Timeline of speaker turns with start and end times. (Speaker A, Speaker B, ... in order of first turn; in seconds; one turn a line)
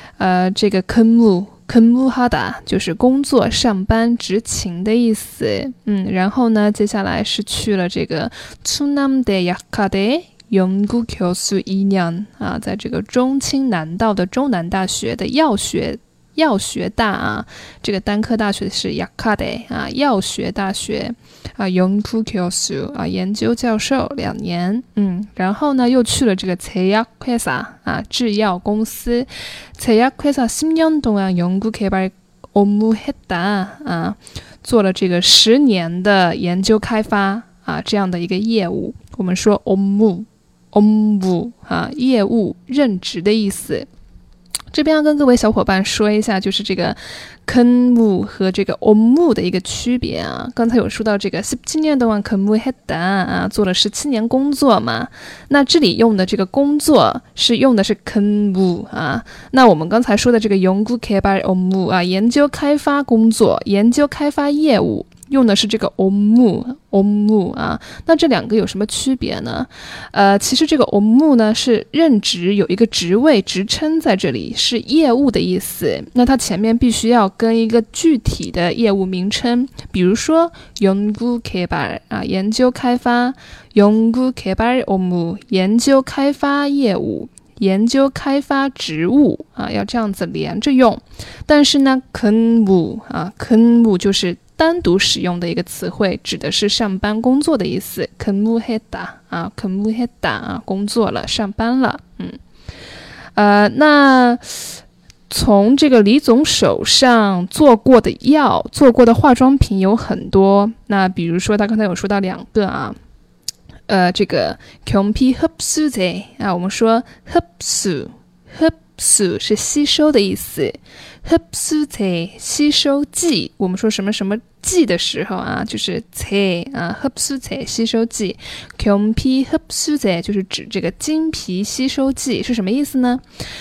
Speaker A: 0.2-43.9
Speaker A: 44.7-102.4
Speaker A: 103.4-113.0
Speaker A: 113.9-133.2